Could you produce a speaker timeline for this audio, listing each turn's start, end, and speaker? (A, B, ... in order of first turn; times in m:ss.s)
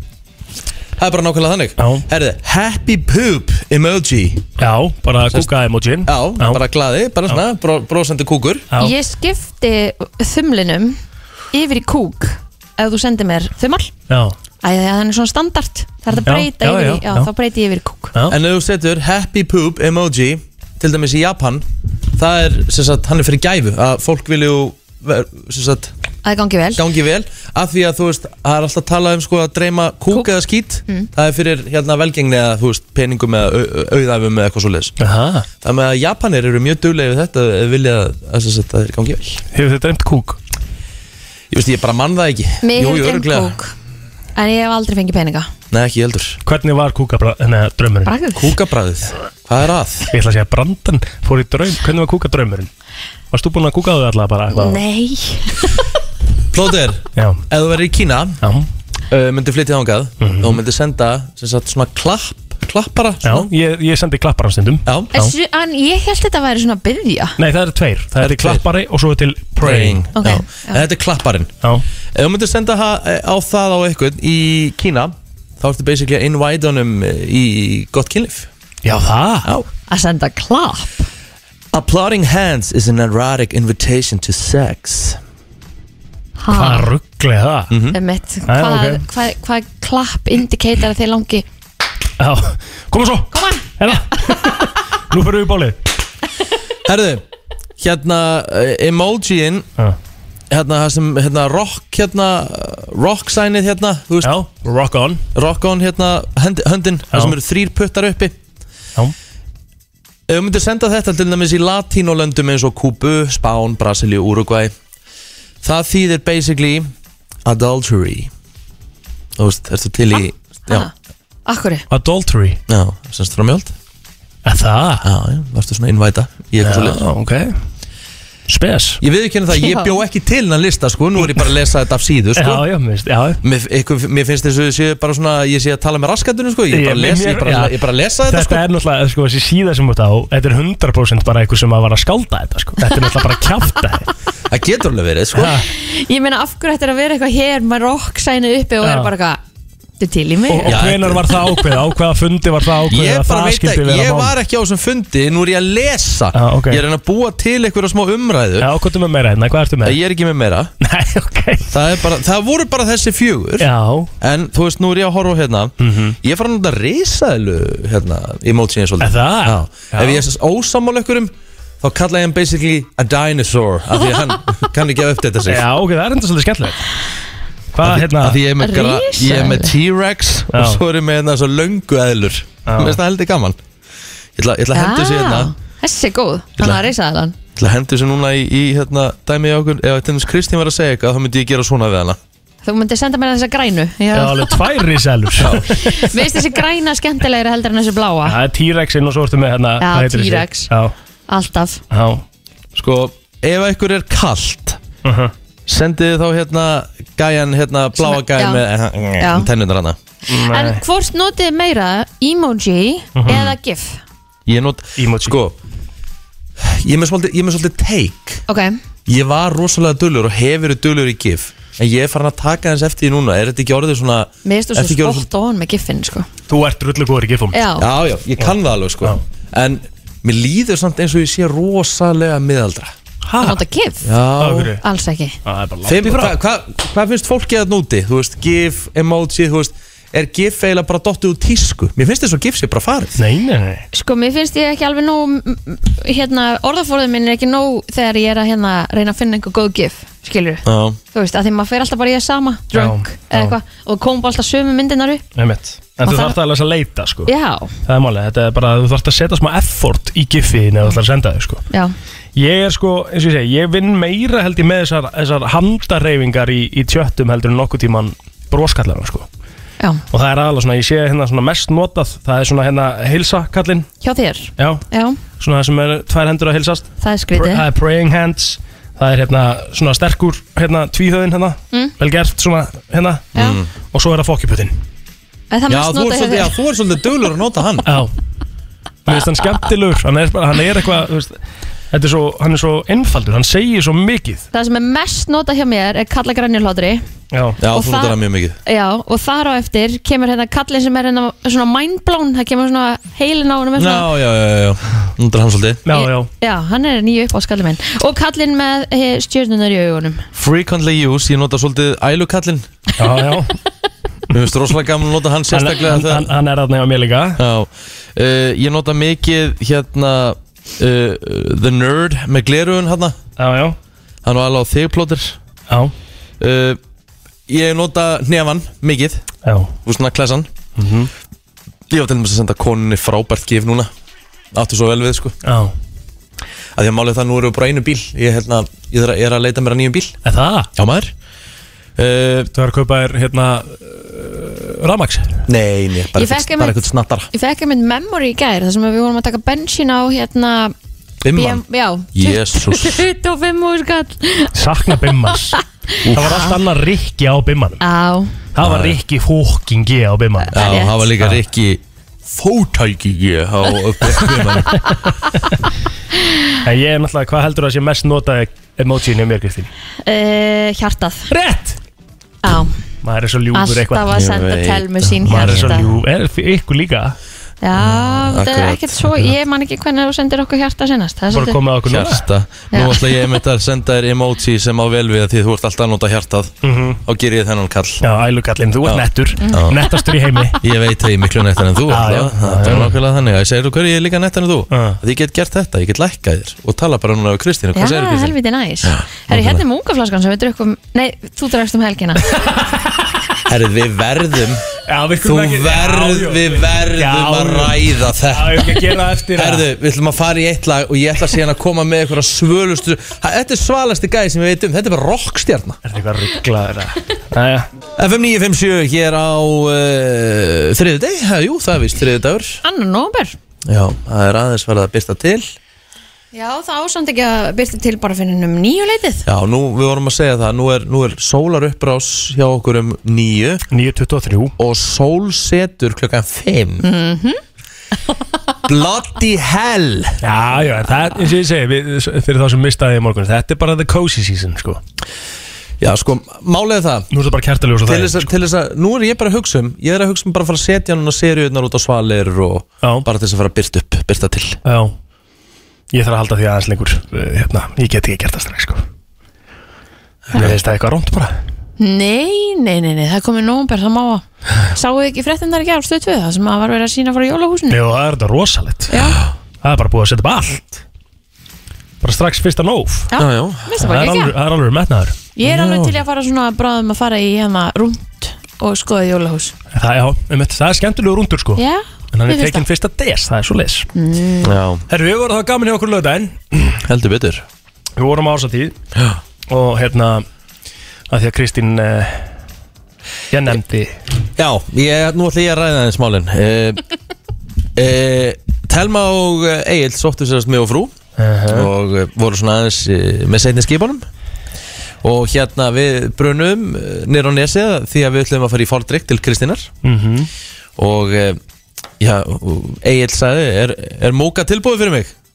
0:01.0-0:04.5 A
0:01.8-0:02.0 B
0:04.6-0:06.6 B
0:06.0-0:08.7 A
0:08.8-0:11.0 C
0:11.5-0:13.9 C
0:14.1-0:14.4 B
0:14.6-0:18.1 C
0:16.3-0:17.3 B
0:18.3-0:25.9 A
0:26.2-0:26.8 C
0:26.8-0:35.0 A
0:35.0-0:35.5 B
0:35.6-0:39.4 A
0:39.5-0:40.4 B
0:41.5-0:43.6 A
0:42.6-0:43.7 C
0:44.4-0:45.5 C
0:45.7-0:46.4 A
0:46.4-0:48.1 B
0:48.1-0:48.6 C
0:48.4-0:50.1 A
0:50.1-0:52.7 B
0:53.3-0:54.8 B
0:54.5-0:55.8 C
0:56.5-0:58.4 A
0:57.2-0:57.4 B
0:58.4-0:58.7 B
0:59.1-1:03.5 A
1:00.2-1:00.6 B
1:03.2-1:05.3 B
1:04.9-1:05.1 A
1:05.1-1:07.4 C
1:07.4-1:10.1 B
1:08.2-1:08.6 A
1:09.6-1:11.5 A
1:10.2-1:10.8 C
1:12.2-1:18.5 A
1:18.8-1:19.5 B
1:19.9-1:21.1 C
1:21.7-1:25.2 A
1:26.4-1:26.9 C
1:26.5-1:27.8 B
1:27.7-1:28.0 A
1:27.9-1:31.4 C
1:28.5-1:29.0 B
1:32.2-1:35.8 B
1:33.3-1:33.6 C
1:36.8-1:37.2 A
1:37.8-1:39.7 A
1:40.5-1:44.4 A
1:44.2-1:45.2 B
1:45.4-1:48.4 A
1:50.3-1:54.7 A
1:55.6-1:56.9 A
1:57.4-1:58.3 A
1:59.4-2:00.9 A
2:01.5-2:01.9 C
2:01.9-2:02.6 B
2:02.7-2:03.7 A
2:04.4-2:05.0 B
2:05.0-2:07.0 A
2:06.6-2:07.5 B
2:08.5-2:09.0 B
2:09.0-2:12.6 A
2:09.5-2:09.9 C
2:12.4-2:13.4 B
2:13.4-2:18.6 A
2:16.7-2:24.1 B
2:24.5-2:25.6 A
2:25.4-2:25.7 B
2:25.7-2:29.4 C
2:28.8-2:29.1 B
2:30.0-2:30.8 C
2:30.5-2:34.3 B
2:30.7-2:31.5 A
2:32.9-2:38.7 A
2:36.4-2:36.8 B
2:38.6-2:40.0 B
2:39.8-2:40.7 A
2:40.8-2:41.8 B
2:41.7-2:43.7 A
2:43.6-2:44.1 B
2:44.2-2:55.6 A
2:45.8-2:46.2 B
2:49.0-2:50.2 B
2:55.5-2:56.9 B
2:57.7-2:58.4 B
2:57.8-3:03.6 A
2:58.6-2:59.7 C
3:00.5-3:00.8 B
3:02.6-3:03.0 B
3:04.4-3:05.5 A
3:04.7-3:07.4 C
3:06.6-3:06.9 A
3:07.6-3:12.2 A
3:12.6-3:14.7 C
3:14.1-3:16.2 B
3:15.4-3:15.7 A
3:15.8-3:18.4 C
3:18.2-3:20.9 B
3:19.8-3:20.7 C
3:21.3-3:21.8 C
3:21.9-3:22.2 B
3:22.8-3:24.8 A
3:25.0-3:25.3 B
3:25.7-3:30.0 A
3:28.0-3:28.6 C
3:29.2-3:29.5 C
3:30.3-3:30.8 B
3:30.3-3:34.0 C
3:33.2-3:33.4 B
3:33.3-3:33.6 A
3:34.5-3:35.6 A
3:35.0-3:35.4 B
3:36.6-3:38.4 A
3:38.5-3:38.8 C
3:39.1-3:45.3 A
3:44.4-3:46.3 C
3:46.5-3:47.6 B
3:47.5-3:47.8 C
3:47.8-3:52.9 A
3:53.2-3:53.6 B
3:53.4-3:54.1 C
3:54.0-3:54.8 A
3:54.4-3:54.8 B
3:54.8-3:55.4 C
3:55.4-3:56.4 B
3:55.8-4:03.2 A
4:03.2-4:03.9 B
4:03.9-4:15.2 C
4:10.6-4:11.0 A
4:12.7-4:13.6 B
4:15.4-4:17.3 B
4:16.0-4:16.4 C
4:17.3-4:17.7 C
4:17.9-4:21.6 B
4:22.4-4:29.3 B
4:30.1-4:33.9 B
4:34.0-4:35.2 C
4:34.6-4:34.8 B
4:35.4-4:43.3 B
4:37.0-4:37.6 C
4:43.4-4:43.7 A
4:43.9-4:44.8 B
4:45.5-4:46.5 C
4:45.7-4:47.9 A
4:47.9-4:48.1 B
4:49.1-4:51.4 B
4:51.9-4:54.4 B
4:54.5-4:57.0 C
4:57.3-4:57.6 B
4:57.6-4:58.6 A
4:57.7-5:04.1 C
5:03.8-5:05.8 A
5:05.9-5:06.3 B
5:05.9-5:10.3 C
5:10.4-5:12.7 A
5:13.0-5:13.6 B
5:14.3-5:16.3 A
5:15.5-5:17.4 B
5:17.4-5:23.2 A
5:23.4-5:23.8 B
5:24.2-5:25.4 A
5:25.7-5:25.9 B
5:26.4-5:26.8 A
5:27.5-5:29.2 A
5:29.4-5:29.7 B
5:29.9-5:30.5 A
5:30.8-5:31.1 B
5:31.9-5:33.9 A
5:34.5-5:35.4 A
5:35.4-5:35.7 B
5:36.8-5:40.2 A
5:40.2-5:40.7 B
5:40.8-5:41.1 A
5:42.0-5:42.5 A
5:42.5-5:45.4 B
5:45.5-5:47.3 A
5:46.1-5:50.7 C
5:51.2-5:51.6 A
5:51.3-5:54.5 C
5:52.1-5:53.0 A
5:54.5-5:57.8 B
5:55.2-5:55.6 C
5:56.1-5:56.4 A
5:56.2-5:56.5 C
5:57.8-5:58.4 C
5:58.5-6:00.6 B
5:58.6-5:59.0 A
6:00.5-6:01.1 C
6:00.5-6:05.0 A
6:06.6-6:09.7 B
6:10.0-6:11.3 C
6:11.3-6:11.8 B
6:12.4-6:12.8 C
6:13.0-6:14.1 B
6:13.5-6:15.9 C
6:14.1-6:15.8 A
6:15.3-6:17.2 B
6:17.6-6:21.6 C
6:17.8-6:19.0 A
6:21.3-6:22.3 B
6:21.9-6:28.0 A
6:22.7-6:23.1 C
6:26.6-6:27.0 B
6:28.0-6:30.6 B
6:28.8-6:29.8 A
6:29.4-6:30.0 C
6:30.6-6:39.6 A
6:31.9-6:33.0 B
6:34.7-6:35.0 B
6:37.8-6:42.3 C
6:43.4-6:44.6 A
6:44.9-6:49.7 B
6:45.2-6:55.8 A
6:55.8-6:57.7 B
6:58.0-7:02.6 A
7:02.6-7:03.4 C
7:03.6-7:05.5 A
7:06.3-7:09.3 C
7:09.3-7:13.6 A
7:13.7-7:14.6 B
7:14.6-7:16.9 A
7:16.8-7:17.4 C
7:18.7-7:20.2 A
7:20.2-7:24.8 B
7:25.8-7:27.1 A
7:27.1-7:28.3 B
7:27.8-7:34.6 A
7:32.8-7:33.1 B
7:34.6-7:34.9 B
7:35.9-7:38.8 B
7:40.3-7:40.6 A
7:40.3-7:41.4 B
7:41.8-7:47.8 C
7:47.7-7:48.9 B
7:48.9-7:49.2 C
7:49.6-7:50.8 B
7:52.0-7:53.1 B
7:53.1-7:54.4 C
7:53.2-7:53.6 A
7:53.8-7:55.2 B
7:55.4-7:59.6 C
7:55.4-7:55.9 A
7:59.7-8:01.6 B
8:01.6-8:02.6 C
8:02.1-8:03.9 B
8:04.0-8:04.5 C
8:04.4-8:04.8 A
8:04.9-8:06.8 B
8:06.8-8:07.4 A
8:08.0-8:08.8 B
8:09.5-8:10.3 B
8:11.1-8:12.3 B
8:13.3-8:14.0 B
8:14.4-8:16.8 A
8:17.8-8:20.9 A
8:21.2-8:21.7 B
8:21.5-8:24.0 A
8:25.0-8:29.7 A
8:29.8-8:30.3 B
8:30.8-8:31.4 A
8:32.0-8:35.1 A